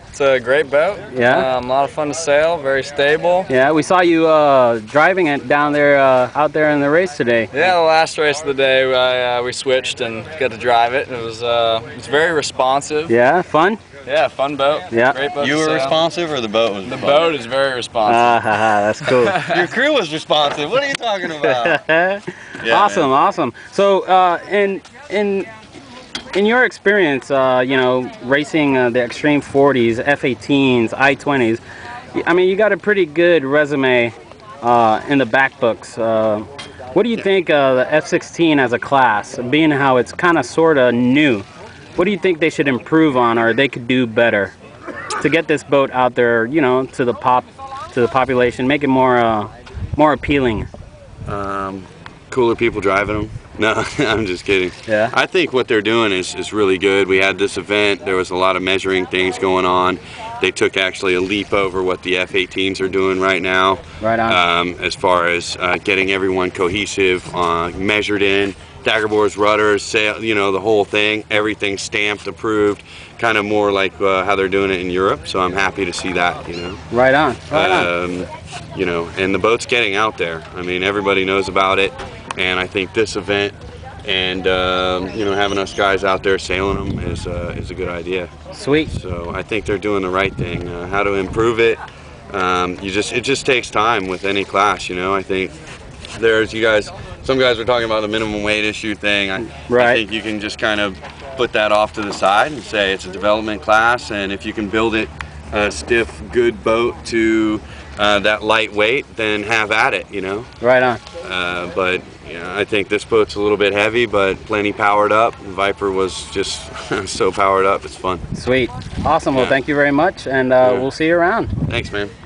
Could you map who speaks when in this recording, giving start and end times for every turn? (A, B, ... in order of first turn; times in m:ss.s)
0:00.1-0:03.5 A
0:01.1-0:01.5 B
0:03.5-0:07.6 B
0:07.5-0:13.1 A
0:13.1-0:13.8 B
0:14.0-0:16.0 A
0:14.9-0:15.2 B
0:15.4-0:17.3 C
0:16.8-0:18.4 A
0:18.0-0:19.4 B
0:19.0-0:19.6 A
0:19.4-0:21.8 C
0:21.4-0:25.5 B
0:22.6-0:23.1 C
0:26.3-0:31.6 B
0:32.2-0:41.4 B
0:42.0-0:44.5 B
0:45.2-0:50.7 B
0:51.3-1:16.8 C
0:54.9-0:55.1 B
1:04.0-1:04.4 B
1:16.9-1:17.9 B
1:17.5-1:28.3 C
1:28.5-1:28.9 B
1:28.9-1:31.8 C
1:32.3-1:35.5 C
1:36.1-1:50.5 C
1:39.7-1:40.0 B
1:50.6-1:51.0 B
1:51.2-1:58.2 C
1:58.4-2:01.5 B
2:00.6-2:00.9 C
2:01.7-2:02.1 C